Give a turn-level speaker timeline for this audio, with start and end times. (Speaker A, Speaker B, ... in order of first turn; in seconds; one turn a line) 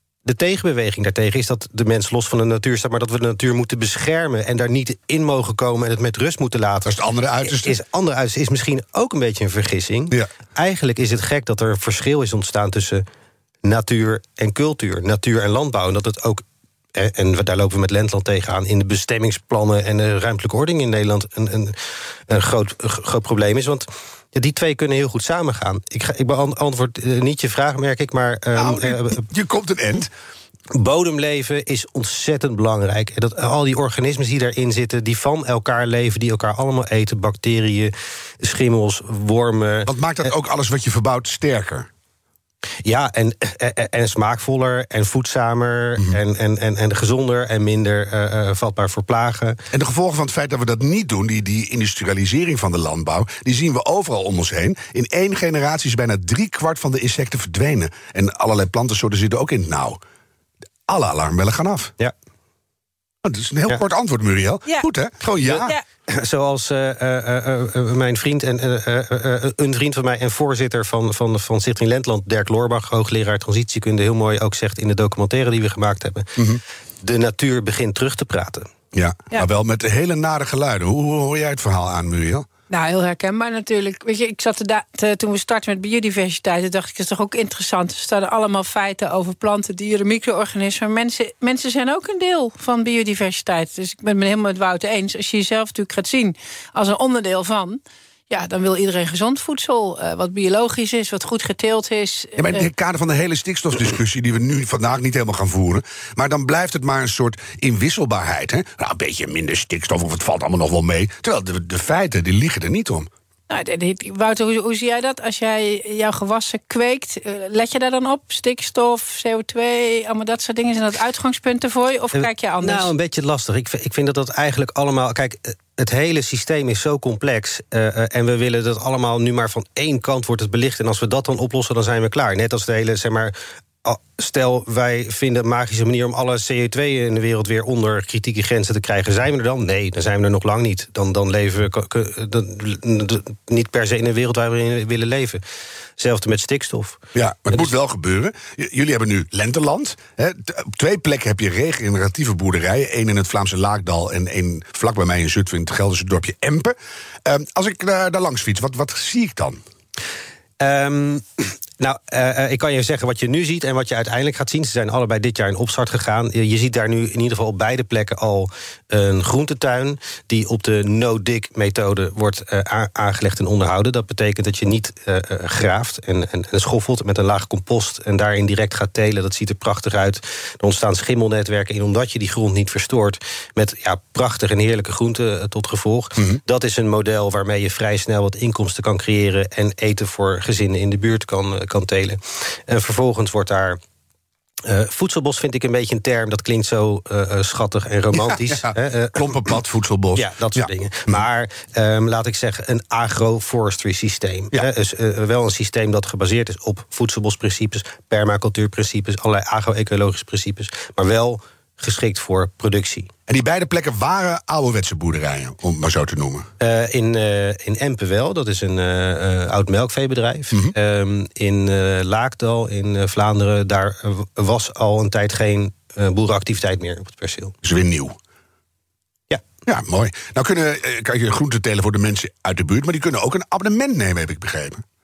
Speaker A: 0.2-6.9
Speaker B: 6.8-7.8
Speaker A: 7.4-13.0
Speaker A: 13.6-16.4
Speaker A: 16.9-29.2
Speaker B: 28.6-30.1
Speaker A: 30.7-39.9
Speaker B: 39.9-41.9
Speaker A: 42.8-49.6
Speaker B: 49.7-60.0
Speaker B: 60.9-61.9
Speaker B: 63.2-65.7
Speaker A: 65.4-76.4
Speaker A: 77.0-78.7
Speaker B: 78.9-82.5
Speaker C: 82.7-102.7
Speaker B: 102.4-113.1
Speaker C: 113.5-122.9
Speaker A: 122.1-145.4
Speaker A: 146.0-147.7
Speaker B: 147.1-159.6
Speaker A: 160.6-193.8
Speaker A: 194.7-199.3
Speaker B: 198.1-201.2
Speaker A: 200.1-213.1
Speaker B: 213.3-216.5
Speaker A: 216.6-227.5
Speaker B: 227.6-228.1
Speaker B: 229.7-234.8